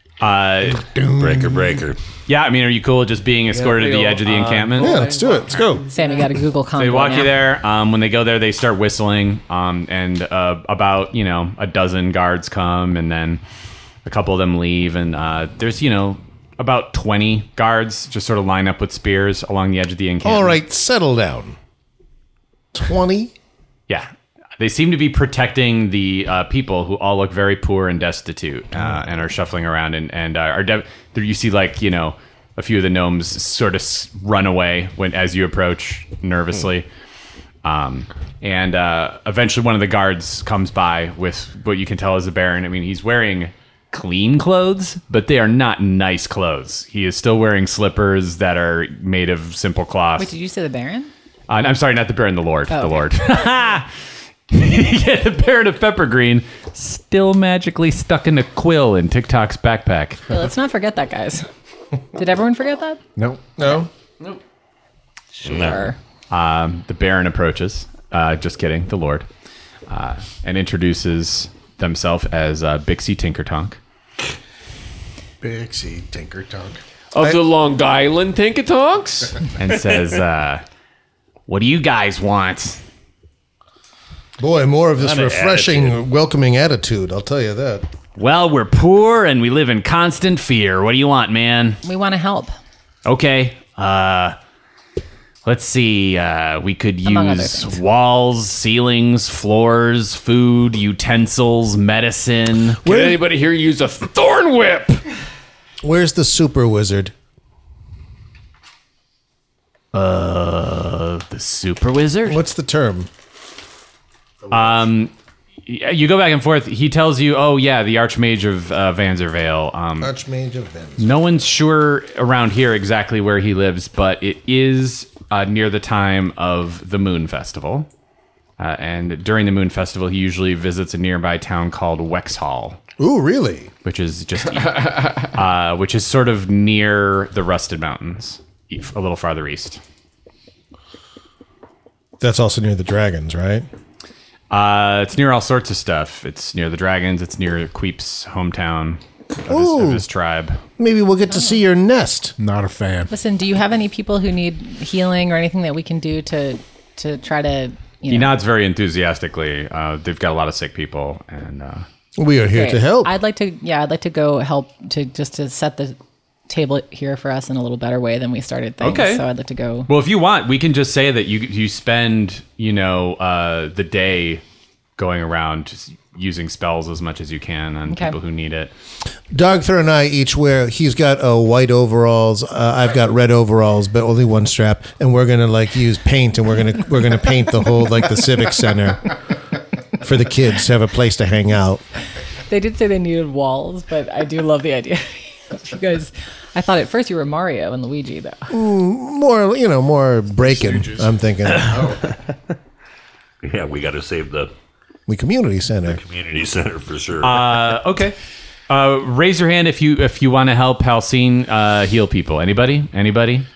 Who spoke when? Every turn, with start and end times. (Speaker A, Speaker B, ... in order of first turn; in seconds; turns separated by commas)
Speaker A: 0.2-0.8, Speaker B: 0.7-1.8, Speaker C: 1.2-2.0, Speaker A: 2.3-5.0, Speaker D: 3.5-6.2, Speaker B: 4.8-5.8, Speaker E: 5.9-7.3, Speaker A: 6.8-13.4, Speaker A: 14.0-20.6, Speaker B: 20.2-21.6, Speaker B: 22.7-23.3, Speaker A: 23.9-36.9, Speaker A: 37.6-50.3, Speaker E: 50.2-51.1, Speaker A: 51.5-53.9, Speaker E: 52.7-53.4, Speaker A: 54.5-60.2, Speaker E: 60.3-61.5, Speaker E: 62.1-63.0, Speaker F: 63.1-63.5, Speaker B: 63.6-63.9, Speaker C: 65.4-65.9, Speaker E: 65.4-66.0, Speaker A: 66.3-69.3, Speaker A: 69.9-73.8, Speaker F: 75.4-76.8, Speaker D: 77.1-79.4, Speaker A: 79.6-80.6, Speaker A: 81.5-82.8, Speaker B: 84.4-87.8, Speaker C: 85.0-86.0, Speaker A: 88.2-91.8, Speaker E: 91.8-92.5, Speaker A: 93.0-94.3, Speaker A: 95.4-102.8, Speaker E: 97.0-97.8, Speaker D: 102.8-105.0, Speaker B: 102.8-103.2, Speaker B: 105.8-107.1, Speaker A: 109.9-112.4, Speaker B: 112.2-113.1, Speaker A: 114.5-115.1, Speaker A: 115.7-120.1, Speaker B: 120.0-121.3, Speaker A: 121.0-127.9, Speaker A: 128.6-132.8, Speaker B: 133.0-133.7, Speaker A: 133.8-139.8, Speaker B: 142.2-143.7, Speaker A: 144.5-150.6, Speaker B: 149.5-150.0, Speaker B: 150.8-152.3, Speaker E: 151.3-151.6, Speaker F: 152.4-153.1, Speaker E: 153.1-158.4, Speaker A: 158.1-161.8, Speaker B: 162.2-163.1, Speaker E: 162.5-166.0, Speaker E: 166.5-169.9, Speaker A: 168.8-169.2, Speaker A: 169.9-174.4, Speaker A: 175.0-178.7, Speaker E: 177.9-178.2, Speaker B: 179.3-189.1, Speaker B: 190.0-191.8, Speaker E: 192.5-198.5, Speaker B: 198.5-201.9, Speaker F: 200.4-202.1, Speaker C: 203.4-204.5, Speaker B: 205.1-206.0, Speaker C: 205.8-207.8, Speaker A: 207.2-208.2, Speaker A: 208.7-213.5